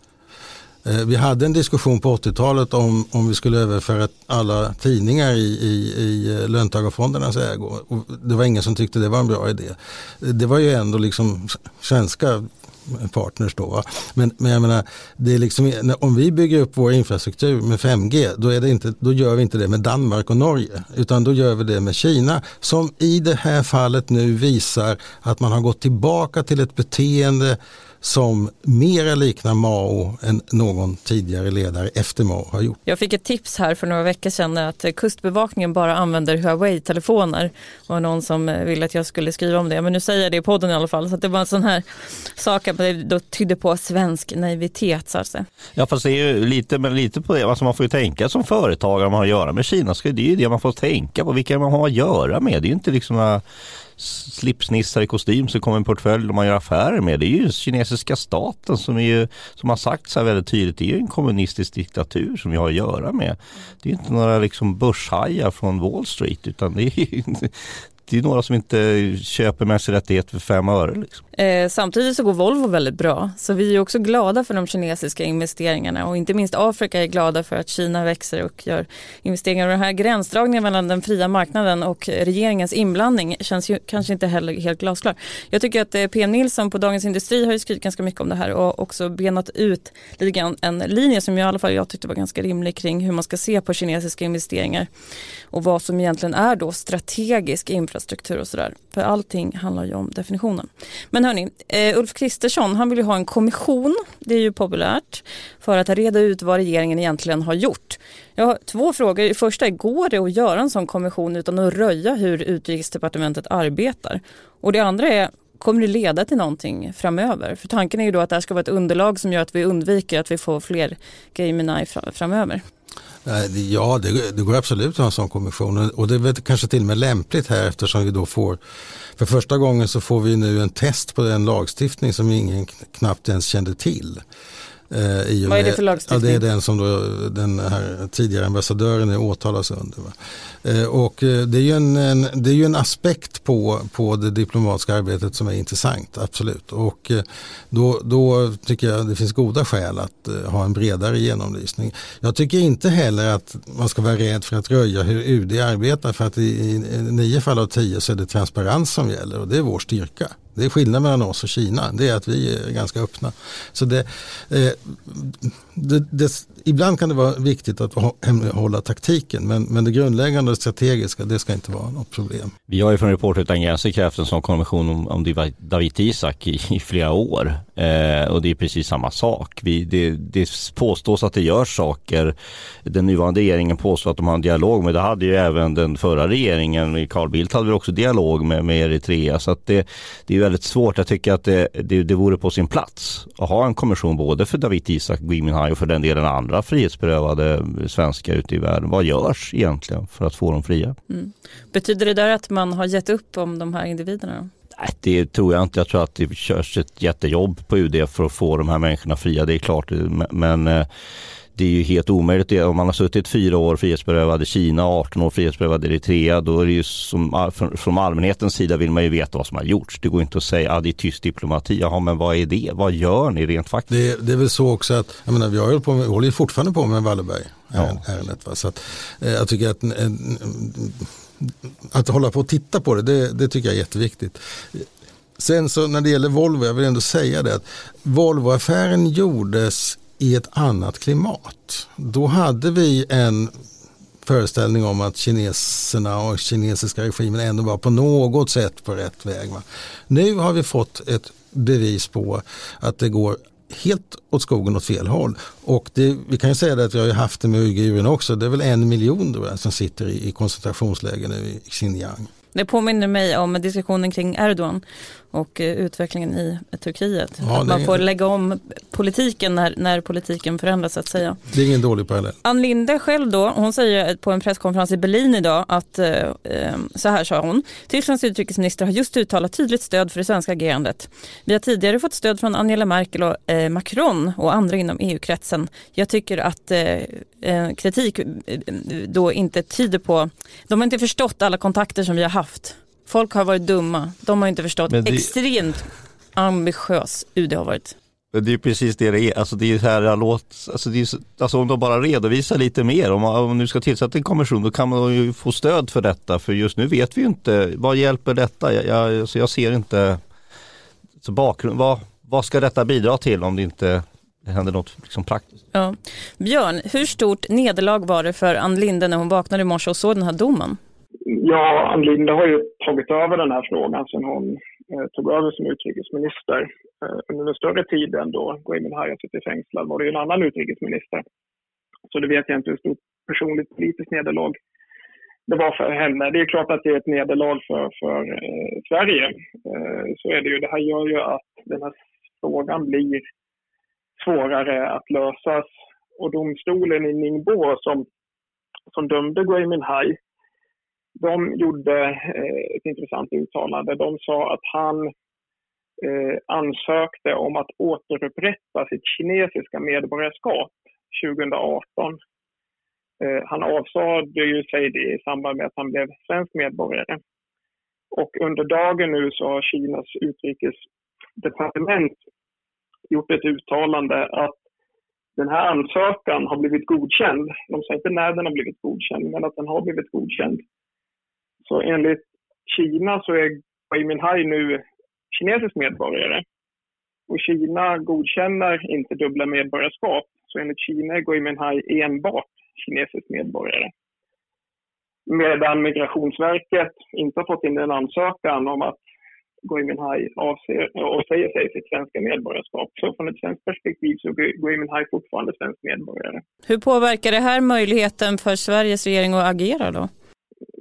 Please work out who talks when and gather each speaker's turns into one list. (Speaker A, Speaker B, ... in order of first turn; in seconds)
Speaker A: 0.8-32.8, 123.2-128.6, 129.2-134.2, 134.9-172.5, 223.9-243.6, 244.2-262.3, 267.4-268.0, 271.5-272.4
Speaker B: 32.9-45.5, 71.4-94.9, 95.5-122.6, 135.5-136.4, 201.1-204.5, 262.5-271.4, 272.4-298.0, 315.7-320.8, 406.7-410.1
Speaker C: 45.8-53.4, 54.0-71.2, 172.7-201.0, 204.8-210.9, 211.6-223.9, 294.9-295.3, 298.3-310.2, 311.2-315.6
Speaker D: 321.3-331.2, 332.1-334.6, 335.5-343.2, 344.2-348.1, 348.9-350.2, 351.2-355.1, 356.0-362.2, 363.2-367.2, 368.1-370.8, 371.4-372.2, 373.1-374.6, 375.4-380.6, 381.6-386.4, 387.3-393.9, 395.3-399.0, 399.6-406.4